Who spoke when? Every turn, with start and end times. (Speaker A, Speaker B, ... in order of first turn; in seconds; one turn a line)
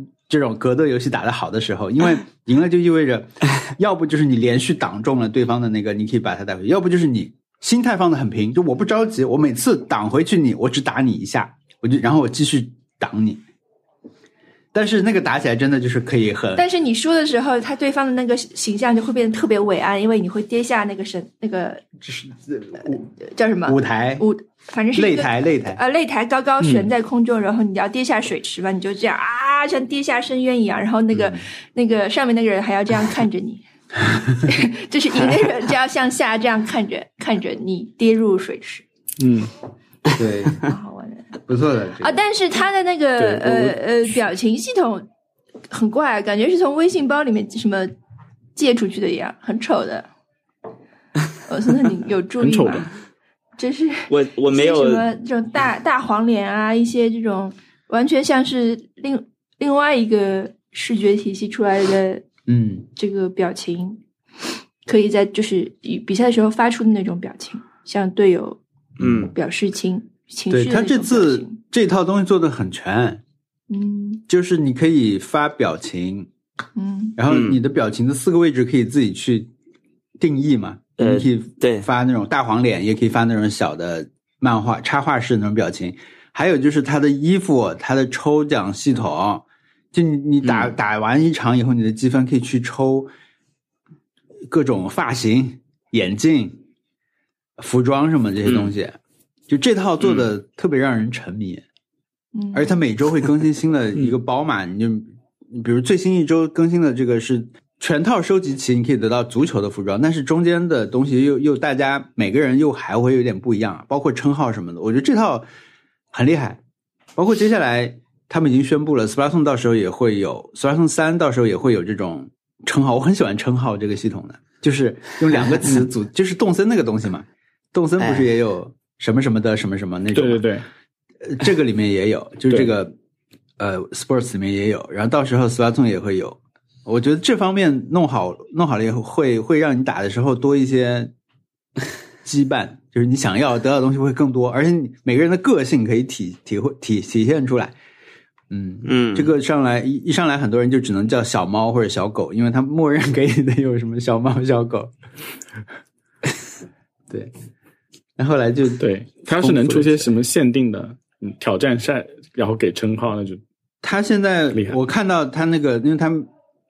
Speaker A: 0.3-13.4
Speaker A: 14.7-16.6
Speaker B: 16.6-21.8
Speaker A: 22.0-23.1
Speaker B: 23.2-33.6
Speaker A: 23.6-24.2
Speaker A: 24.9-25.8
Speaker C: 26.6-26.9
Speaker A: 31.1-31.4
Speaker B: 34.4-38.8
Speaker C: 39.2-39.5
Speaker A: 40.1-40.6
Speaker B: 40.6-41.3
Speaker A: 41.5-42.2
Speaker B: 42.0-45.0
Speaker C: 43.2-43.7
Speaker B: 45.7-47.9
Speaker B: 48.5-50.1
Speaker B: 51.5-52.9
Speaker C: 52.4-52.9
Speaker B: 53.6-62.2
Speaker D: 54.1-55.0
Speaker A: 62.5-62.9
Speaker B: 62.9-64.0
Speaker B: 64.8-68.6
Speaker D: 69.0-69.3
Speaker B: 69.2-71.6
Speaker A: 70.5-73.2
Speaker B: 73.7-74.2
Speaker A: 74.3-76.3
Speaker B: 76.8-77.2
Speaker A: 77.2-79.5
Speaker D: 77.3-77.6
Speaker A: 80.2-93.1
Speaker D: 81.0-81.9
Speaker D: 90.4-90.7
Speaker A: 94.5-96.6
Speaker A: 97.6-101.6
Speaker D: 98.4-98.7
Speaker B: 102.3-102.7
Speaker A: 102.5-115.4
Speaker A: 116.1-116.6
Speaker A: 117.2-130.5
Speaker C: 130.1-130.7
Speaker A: 131.2-132.9
Speaker A: 133.6-141.1
Speaker A: 142.2-147.7
Speaker A: 148.5-154.9
Speaker D: 148.8-149.3
Speaker A: 158.2-160.1
Speaker C: 158.8-163.4
Speaker A: 163.8-166.3